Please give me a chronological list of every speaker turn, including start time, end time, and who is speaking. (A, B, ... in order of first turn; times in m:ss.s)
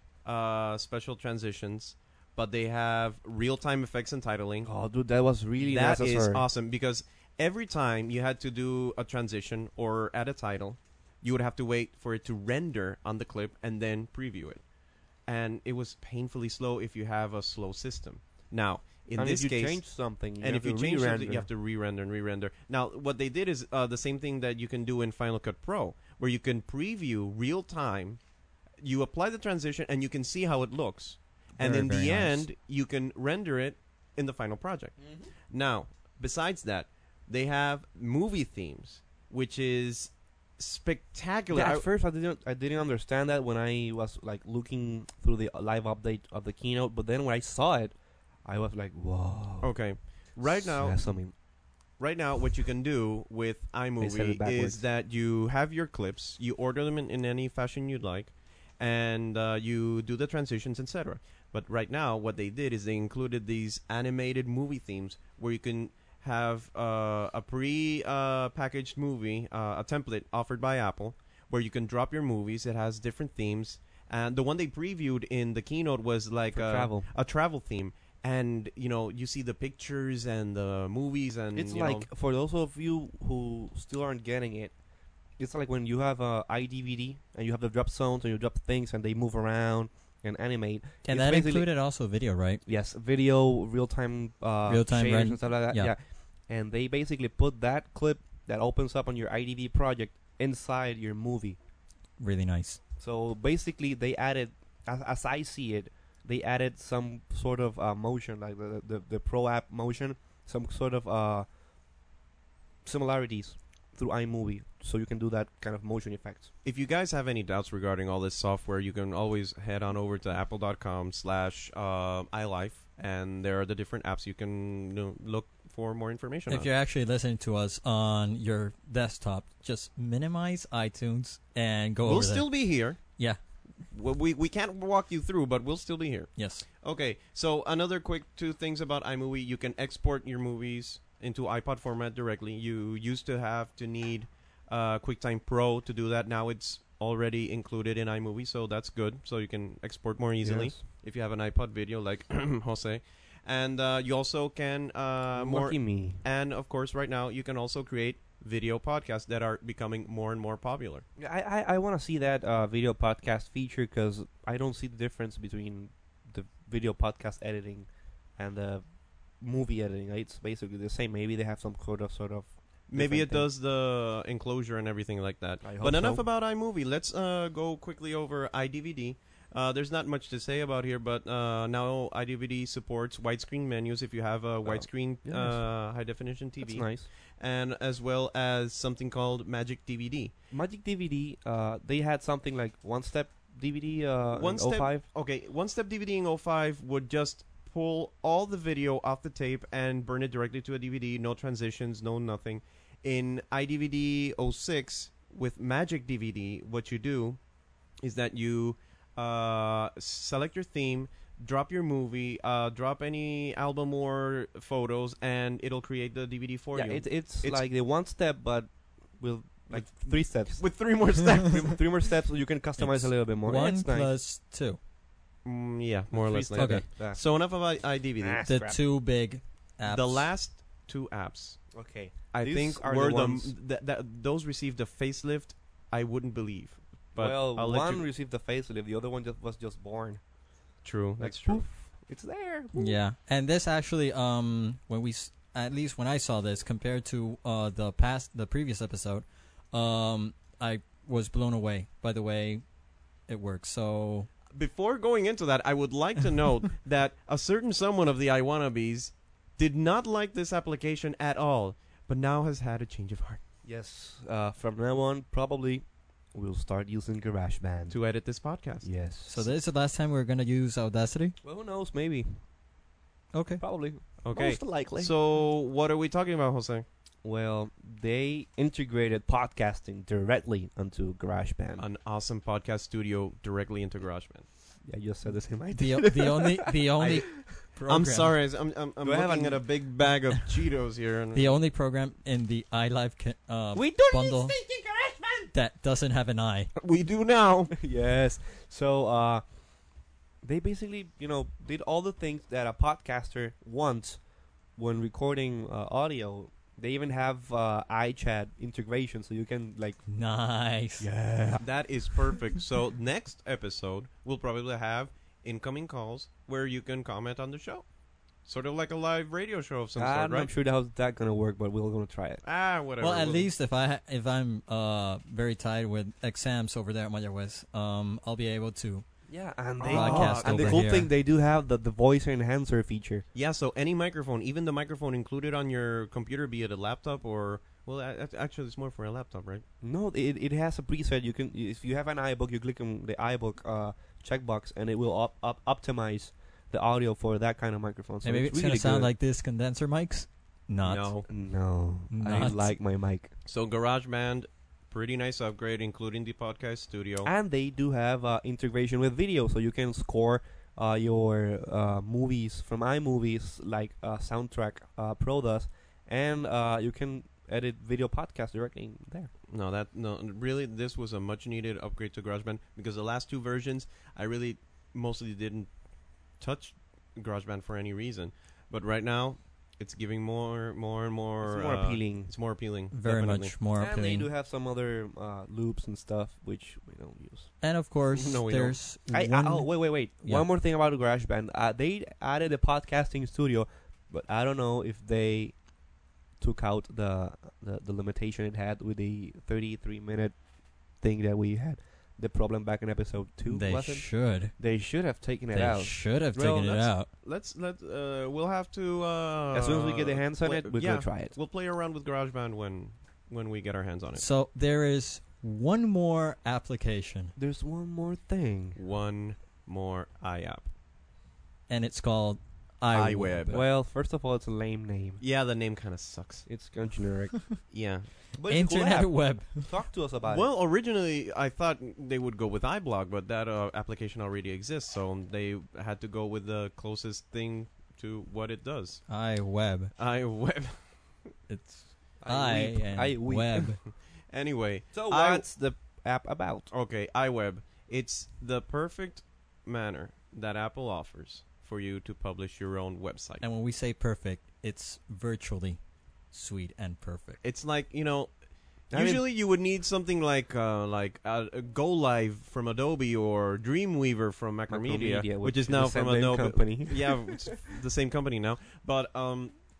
0:00.2-0:04.7 A
0:04.6-0:06.5 B
0:05.6-0:14.6 A
0:15.3-0:19.8 A
0:19.2-0:21.5 B
0:20.4-0:28.2 A
0:28.8-0:41.9 A
0:31.6-0:32.5 C
0:35.0-0:35.3 B
0:41.5-0:49.7 B
0:49.6-0:51.2 A
0:50.5-0:51.3 B
0:52.0-1:22.1 A
0:54.0-0:54.8 B
1:16.5-1:17.1 B
1:21.5-1:24.7 B
1:25.4-1:31.7 B
1:31.0-1:32.6 C
1:32.6-1:41.6 B
1:34.7-1:35.9 C
1:42.2-1:42.8 C
1:43.0-1:51.5 B
1:52.8-1:56.5 B
1:56.6-2:06.7 A
2:06.5-2:13.4 C
2:12.0-2:13.0 A
2:13.9-2:41.0 A
2:16.4-2:16.6 C
2:30.4-2:30.8 B
2:35.3-2:36.2 B
2:41.2-2:48.8 B
2:49.4-2:53.5 B
2:52.9-3:10.3 A
2:55.6-2:56.2 B
3:04.7-3:05.7 B
3:06.6-3:07.1 B
3:10.5-3:15.0 B
3:14.3-3:27.4 A
3:28.0-3:37.6 A
3:36.7-3:44.1 B
3:39.7-3:41.8 A
3:42.8-3:44.8 C
3:45.4-3:48.4 A
3:46.1-3:47.2 B
3:46.6-3:46.8 C
3:48.2-3:48.8 B
3:48.4-3:50.3 C
3:49.8-3:51.6 A
3:51.7-3:53.5 B
3:52.3-3:58.1 A
3:57.2-4:00.2 B
4:00.8-4:01.6 A
4:01.2-4:03.0 B
4:02.8-4:12.6 C
4:13.3-4:14.3 C
4:14.5-4:23.4 A
4:23.6-4:28.0 B
4:27.9-4:28.9 A
4:28.8-4:29.5 B
4:29.3-4:31.4 C
4:31.4-4:32.3 B
4:33.3-4:33.6 C
4:33.6-4:35.1 B
4:34.2-4:36.8 A
4:37.2-4:41.9 B
4:41.8-4:44.5 A
4:44.8-4:47.6 B
4:45.7-4:48.3 C
4:47.9-4:51.6 A
4:49.0-4:49.6 B
4:51.3-4:54.6 C
4:53.8-4:55.5 B
4:55.5-4:56.7 C
4:56.8-4:57.7 A
4:57.7-4:59.4 B
5:00.4-5:04.2 B
5:04.8-5:10.0 B
5:10.1-5:11.1 C
5:11.0-5:11.6 B
5:11.6-5:17.9 A
5:18.4-5:20.5 A
5:20.0-5:22.4 B
5:22.4-5:23.5 A
5:23.0-5:29.1 C
5:29.3-5:33.2 B
5:29.8-5:30.8 A
5:29.8-5:31.1 C
5:33.4-5:39.6 A
5:39.8-5:49.1 B
5:48.2-5:51.1 C
5:50.8-5:51.3 A
5:51.3-5:53.3 B
5:52.1-5:52.8 C
5:53.4-5:57.3 A
5:57.2-6:09.3 B
6:09.5-6:15.7 A
6:16.4-6:23.6 A
6:21.4-6:22.3 B
6:22.9-6:24.3 C
6:23.8-6:27.5 B
6:27.6-6:30.5 C
6:28.1-6:28.8 A
6:29.1-6:35.6 B
6:36.4-6:40.4 B
6:40.9-6:46.7 B
6:43.5-6:44.5 C
6:45.5-6:47.1 C
6:46.4-6:54.2 A
6:49.5-6:51.4 B
6:54.2-6:57.3 C
6:57.4-6:58.8 B
6:58.8-7:00.7 A
7:01.7-7:03.6 C
7:02.9-7:03.6 A
7:03.5-7:05.2 B
7:05.2-7:06.5 A
7:06.5-7:07.5 B
7:07.7-7:08.2 A
7:08.3-7:10.5 B
7:08.5-7:09.7 C
7:10.2-7:19.1 A
7:19.1-7:19.9 C
7:20.0-7:21.2 A
7:21.5-7:23.8 C
7:22.2-7:23.8 B
7:23.9-7:25.5 A
7:24.9-7:26.7 B
7:26.7-7:33.4 A
7:33.4-7:37.4 C
7:37.4-7:49.5 A
7:38.9-7:39.2 B
7:44.7-7:47.6 B